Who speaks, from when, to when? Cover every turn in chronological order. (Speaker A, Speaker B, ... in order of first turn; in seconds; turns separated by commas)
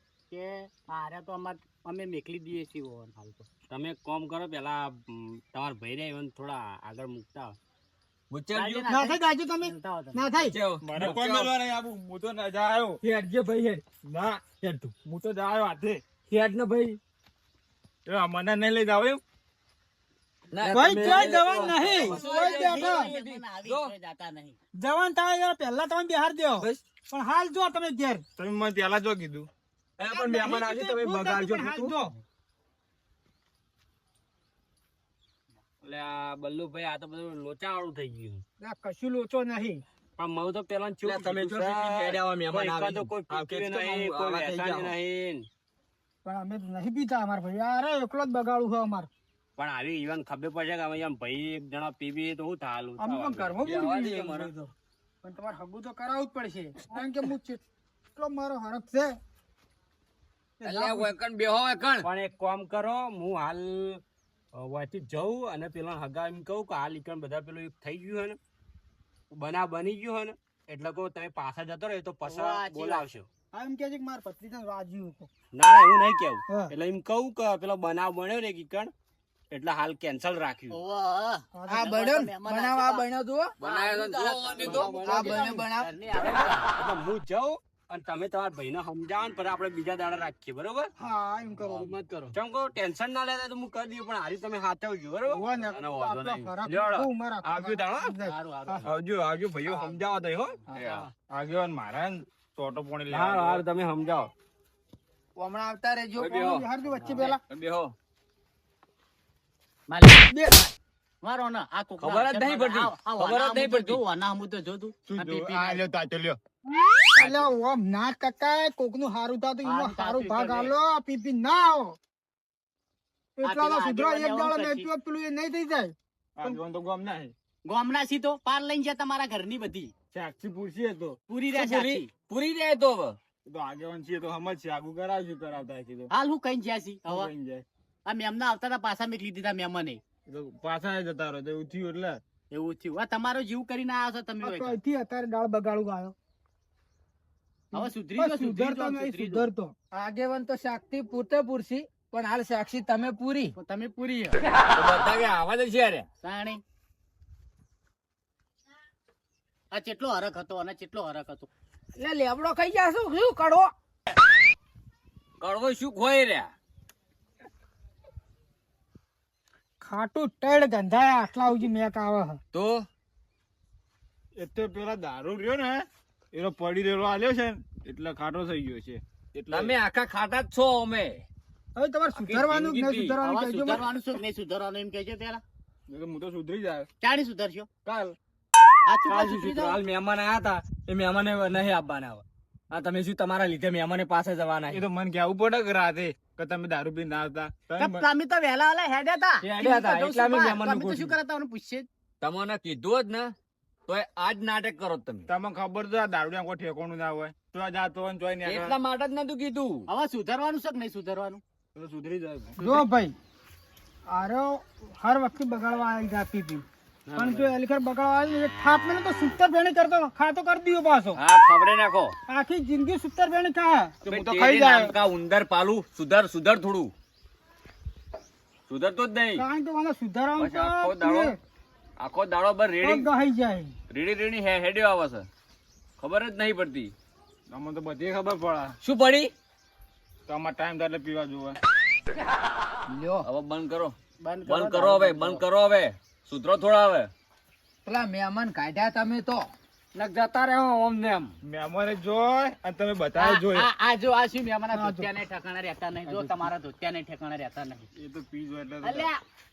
Speaker A: 0.3-3.5, Speaker B: 3.7-7.6, Speaker C: 8.3-8.8, Speaker A: 8.6-10.2, Speaker D: 8.9-10.6, Speaker C: 10.4-11.5, Speaker E: 10.8-13.0, Speaker B: 13.0-13.8, Speaker E: 14.0-16.0, Speaker B: 14.6-14.9, Speaker B: 16.3-17.0, Speaker E: 18.1-19.2, Speaker C: 20.5-23.9, Speaker B: 20.6-21.9, Speaker D: 20.6-23.1, Speaker A: 21.9-24.6, Speaker D: 24.8-28.3, Speaker E: 28.4-29.5, Speaker B: 30.0-31.9, Speaker D: 30.0-32.1, Speaker B: 35.8-38.4, Speaker D: 38.6-39.8, Speaker B: 40.2-45.5, Speaker C: 41.0-44.4, Speaker D: 44.4-44.9, Speaker D: 46.2-49.1, Speaker B: 49.6-54.5, Speaker D: 53.0-54.7, Speaker C: 53.6-54.5, Speaker D: 55.2-57.6, Speaker D: 58.2-59.1, Speaker D: 60.6-61.1, Speaker C: 60.6-62.1, Speaker B: 62.0-64.0, Speaker B: 64.5-68.4, Speaker B: 69.3-73.3, Speaker A: 72.2-73.1, Speaker D: 73.5-75.3, Speaker B: 75.5-78.9, Speaker D: 76.5-76.8, Speaker B: 79.5-80.8, Speaker A: 80.7-83.0, Speaker D: 81.5-81.9, Speaker F: 81.7-83.5, Speaker C: 83.6-85.0, Speaker A: 83.6-86.7, Speaker B: 84.6-85.3, Speaker F: 85.0-85.9, Speaker D: 85.2-85.6, Speaker B: 86.1-90.9, Speaker D: 91.0-92.0, Speaker B: 91.6-95.5, Speaker D: 95.2-98.9, Speaker C: 95.8-96.5, Speaker B: 96.5-98.2, Speaker A: 98.2-98.9, Speaker E: 99.0-99.6, Speaker B: 99.4-101.1, Speaker A: 99.7-100.0, Speaker C: 100.7-101.1, Speaker E: 101.3-103.7, Speaker B: 103.1-104.3, Speaker F: 105.4-106.3, Speaker C: 106.2-107.9, Speaker D: 106.2-107.4, Speaker A: 109.9-115.8, Speaker C: 112.0-114.0, Speaker E: 115.1-116.4, Speaker A: 117.2-117.5, Speaker D: 117.2-122.0, Speaker A: 119.6-120.7, Speaker D: 123.4-126.6, Speaker A: 123.4-124.9, Speaker E: 126.4-127.3, Speaker A: 127.7-129.9, Speaker E: 130.1-131.2, Speaker A: 131.3-132.1, Speaker C: 131.5-133.2, Speaker E: 133.5-136.1, Speaker A: 136.1-137.3, Speaker E: 137.1-137.7, Speaker A: 138.1-140.0, Speaker E: 140.3-142.2, Speaker A: 142.5-144.8, Speaker D: 144.4-146.2, Speaker A: 147.7-149.5, Speaker D: 147.7-149.7, Speaker F: 149.9-153.6, Speaker A: 153.6-154.4, Speaker C: 154.7-156.1, Speaker A: 156.2-156.6, Speaker A: 159.7-161.5, Speaker F: 162.0-163.7, Speaker C: 165.4-166.5, Speaker D: 169.8-172.4, Speaker C: 172.5-172.9, Speaker E: 174.4-179.8, Speaker C: 179.5-181.3, Speaker D: 181.8-183.9, Speaker C: 182.1-183.2, Speaker A: 183.2-185.4, Speaker E: 185.9-186.9, Speaker A: 187.0-187.7, Speaker B: 187.9-188.2, Speaker A: 188.9-189.8, Speaker B: 189.1-194.8, Speaker E: 194.7-198.1, Speaker A: 197.8-201.9, Speaker B: 199.4-201.2, Speaker C: 202.2-203.3, Speaker C: 203.9-205.3, Speaker E: 205.3-208.8, Speaker C: 208.4-209.9, Speaker A: 209.9-211.4, Speaker E: 211.8-212.7, Speaker D: 212.6-213.2, Speaker D: 214.1-221.2, Speaker C: 217.1-217.5, Speaker C: 221.2-222.2, Speaker D: 222.3-224.5, Speaker C: 224.1-226.9, Speaker E: 224.1-224.9, Speaker C: 228.7-229.4, Speaker D: 229.4-231.4, Speaker C: 230.4-231.4, Speaker C: 232.0-233.1, Speaker D: 232.8-233.7, Speaker C: 233.9-235.3, Speaker C: 236.0-236.9, Speaker E: 237.5-238.8, Speaker C: 238.8-239.3, Speaker E: 240.3-241.6, Speaker F: 242.9-243.3, Speaker C: 243.2-247.1, Speaker A: 244.2-245.4, Speaker F: 247.8-249.5, Speaker B: 249.9-251.3, Speaker E: 251.4-253.7, Speaker A: 253.2-257.9, Speaker D: 254.7-255.1, Speaker B: 256.1-256.5, Speaker E: 258.0-259.1, Speaker A: 258.8-259.2